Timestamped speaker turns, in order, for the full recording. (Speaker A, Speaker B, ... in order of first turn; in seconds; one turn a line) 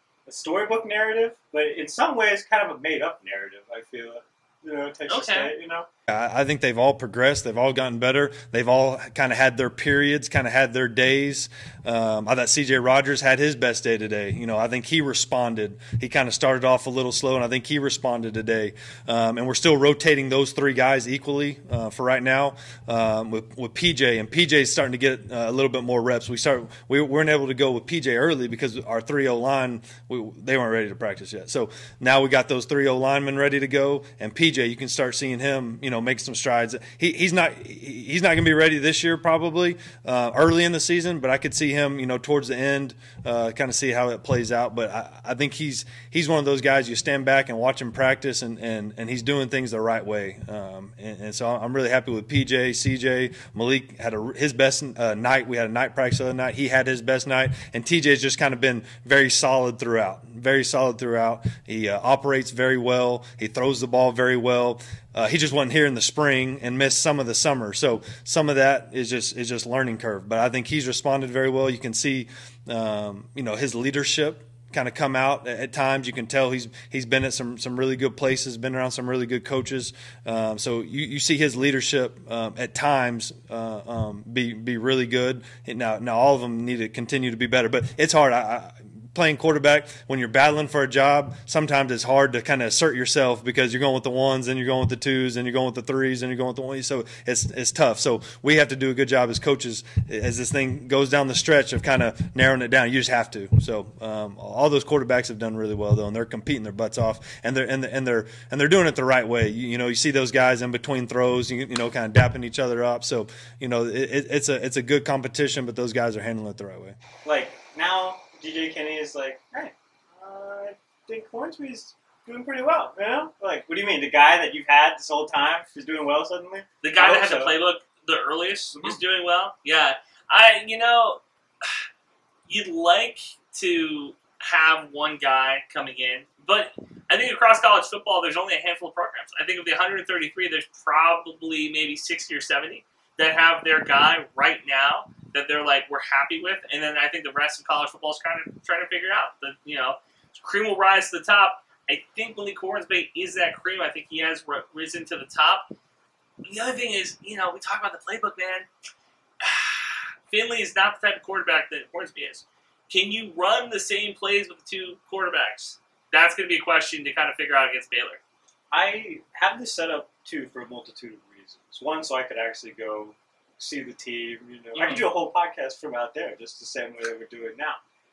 Speaker A: 0.3-5.9
Speaker B: 5.1-5.5
Speaker C: 6.1-117.0
Speaker A: 117.2-127.6
Speaker B: 126.8-131.8
Speaker A: 128.7-129.0
Speaker B: 132.5-155.7
Speaker B: 156.4-158.7
Speaker B: 159.4-168.2
Speaker A: 168.7-177.8
Speaker B: 174.8-175.1